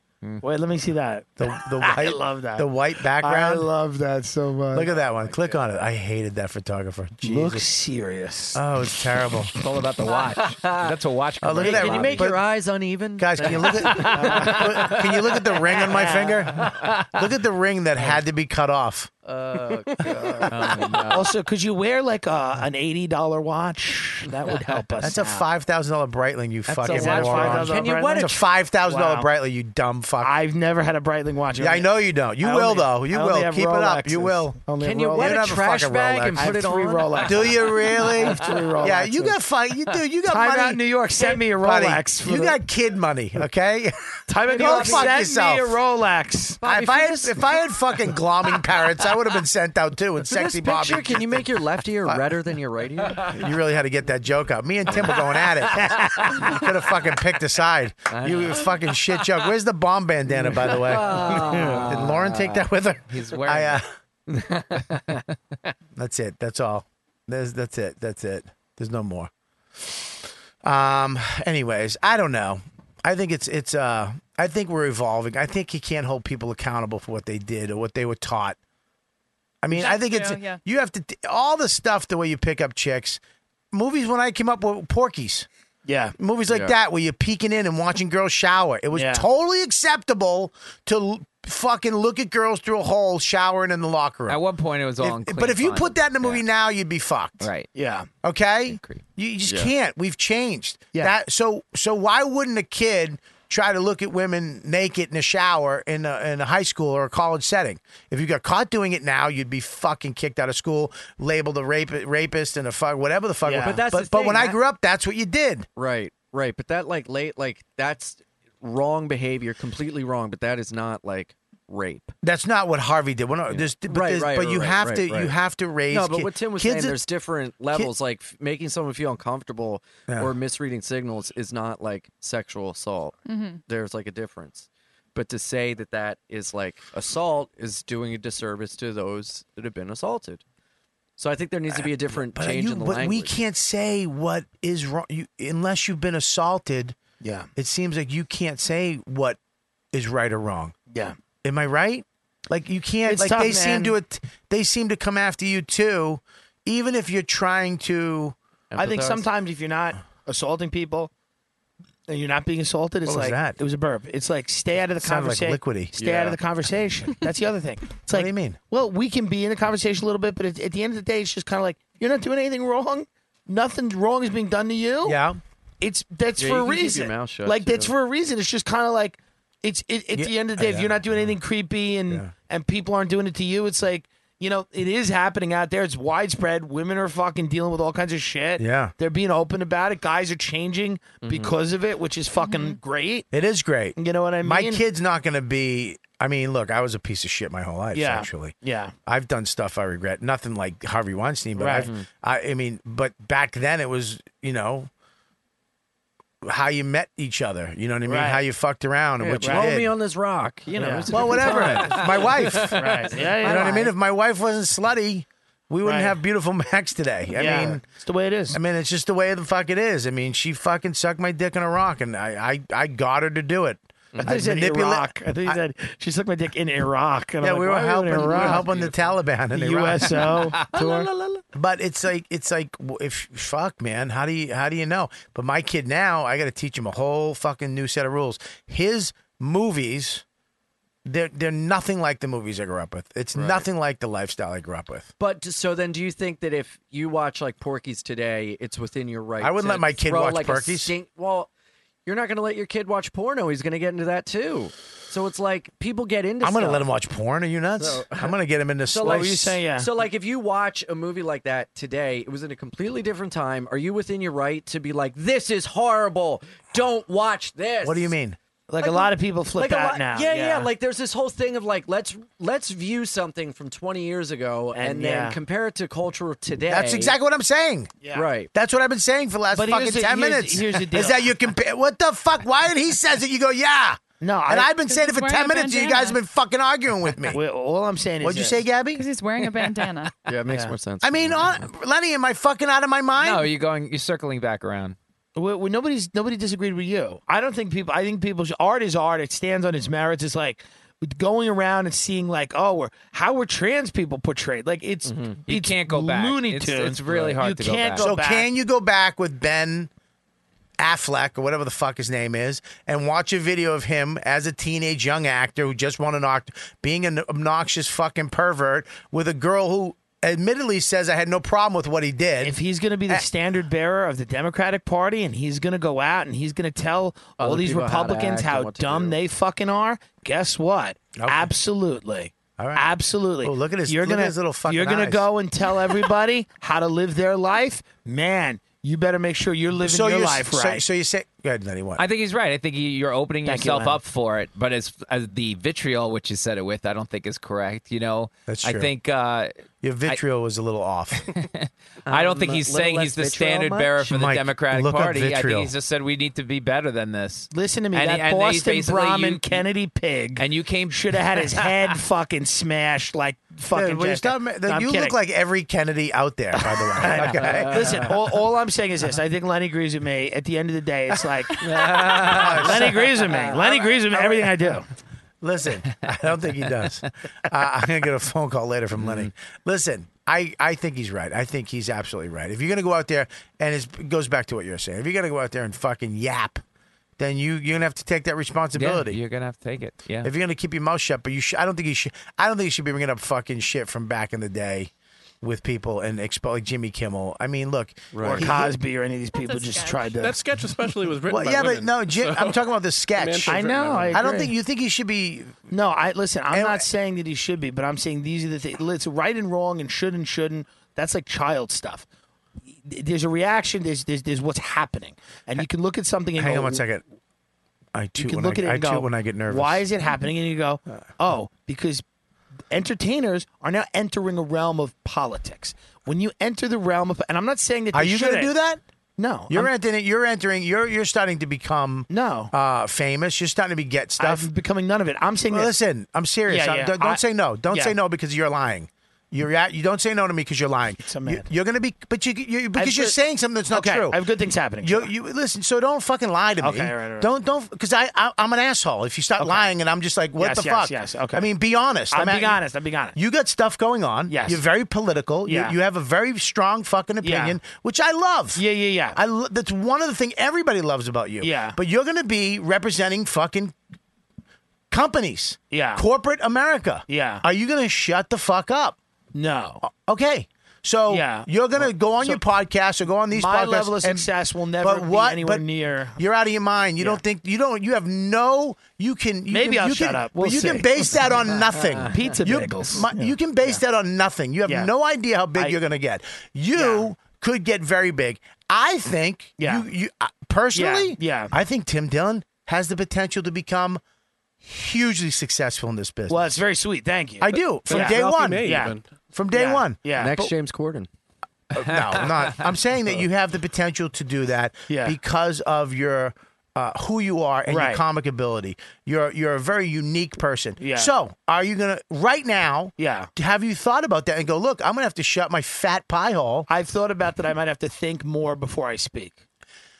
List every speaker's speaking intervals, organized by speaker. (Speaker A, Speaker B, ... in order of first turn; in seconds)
Speaker A: 0.4-4.9, 7.2-8.6, 13.9-15.0, 15.8-16.4, 21.1-25.5, 26.8-29.3, 30.2-35.6, 36.3-39.4, 40.2-42.6, 44.3-46.6, 55.8-56.5, 85.8-86.1, 88.9-89.2, 97.7-98.1, 113.4-113.8, 147.2-147.5, 150.9-151.2, 153.1-153.9, 158.8-161.1, 162.1-175.2, 175.8-193.3, 193.9-194.8, 197.9-198.9, 201.6-201.9, 208.1-208.4, 209.4-209.7, 210.7-211.8, 212.7-213.9, 215.8-216.2, 217.3-218.6, 224.2-228.7, 229.5-231.1, 259.0-259.9, 268.7-270.7, 274.7-275.4, 278.0-278.3, 279.5-281.2, 284.2-284.7, 287.3-288.6, 290.5-290.7, 295.4-308.5, 322.4-340.8, 343.4-344.0, 357.5-365.1, 366.5-374.9, 398.2-400.5, 403.5-404.5, 405.7-412.1, 412.8-416.8, 418.2-422.0, 422.7-428.5, 429.2-429.7, 432.1-432.5, 434.2-435.7, 436.4-437.9, 441.0-441.5, 442.7-443.2, 443.7-445.1, 446.6-447.3, 449.4-449.7, 450.4-451.5, 452.1-453.1, 454.3-454.6, 455.4-455.7, 457.2-457.6, 458.6-459.2, 461.4-461.8, 465.7-466.1, 467.1-467.4, 469.3-469.8, 471.1-472.4, 473.3-476.2, 479.5-481.5, 482.1-483.8, 486.7-487.1, 489.6-489.9, 490.7-491.5, 496.3-498.9, 499.5-500.4, 504.9-505.2, 507.7-508.0, 510.8-511.1, 513.0-513.3, 516.7-519.4
Speaker B: 1.4-3.7, 4.7-7.7, 8.5-9.5, 11.4-12.4, 13.2-19.1, 20.4-20.9, 25.0-30.3, 31.6-34.6, 35.2-36.5, 37.2-45.8, 46.6-52.2, 53.2-63.8, 66.0-78.6, 79.6-83.2, 83.7-85.5, 86.2-94.4, 95.0-97.5, 98.2-115.7, 122.2-127.0, 130.1-130.3, 142.3-146.9, 147.5-149.4, 149.9-150.7, 151.4-158.3, 163.1-163.6, 165.0-166.0, 168.1-168.6, 175.0-175.4, 180.1-181.3, 188.6-188.9, 193.3-198.5, 199.1-204.9, 206.4-209.9, 211.1-217.8, 218.5-225.6, 227.4-230.4, 231.5-240.2, 241.1-245.1, 249.4-250.9, 256.4-259.6, 267.8-268.4, 276.7-277.9, 278.5-287.4, 288.2-289.0, 291.0-293.5, 308.0-309.9, 310.8-322.6, 331.1-331.5, 332.6-332.9, 333.4-335.3, 339.8-342.0, 348.5-348.9, 349.8-351.3, 354.0-355.7, 363.7-368.1, 372.1-374.8, 375.4-386.6, 387.2-389.2, 390.2-394.9, 395.4-398.8, 401.2-405.7, 406.5-406.8, 416.4-417.0, 417.9-419.8, 427.9-428.8, 429.5-434.5, 435.5-444.2, 444.8-452.6, 453.1-458.6, 459.1-463.7, 464.9-469.0, 469.8-474.3, 474.8-475.6, 476.1-494.0, 494.6-496.6, 497.4-500.0, 501.7-516.7
Speaker C: 5.1-5.6, 10.1-10.9, 11.6-17.0, 19.2-21.3, 24.5-25.1, 26.7-28.4, 34.8-38.6, 44.4-45.3, 46.6-47.6, 50.2-53.3, 58.1-58.7, 60.3-62.7, 64.3-65.2, 86.5-86.7, 99.5-99.7, 113.6-114.6, 115.8-122.1, 123.5-125.3, 125.9-140.4, 141.2-143.3, 158.7-159.2, 165.9-166.4, 176.4-177.9, 191.2-191.6, 201.7-202.1, 209.2-213.2, 224.1-224.4, 228.1-229.1, 243.3-243.7, 245.2-251.5, 252.1-256.8, 257.8-258.3, 258.9-268.1, 268.8-277.1, 278.1-278.5, 290.3-291.6, 305.1-305.4, 327.4-329.2, 352.1-354.0, 367.1-368.1, 371.6-372.6, 398.1-398.5, 481.6-482.5, 500.1-501.1
Speaker D: 9.5-12.3, 20.5-21.2, 63.1-63.8, 94.3-96.4, 97.4-97.7, 98.7-99.0, 230.5-231.0, 293.2-294.9, 305.5-308.1, 342.0-349.5, 351.3-359.6, 360.4-361.9, 379.0-379.3, 388.7-390.3, 501.8-502.5
Speaker E: 79.7-80.6, 133.2-133.6, 192.4-192.8, 284.9-286.2, 288.9-290.1, 399.3-400.2
Speaker F: 400.2-402.6, 403.1-404.4, 497.5-499.1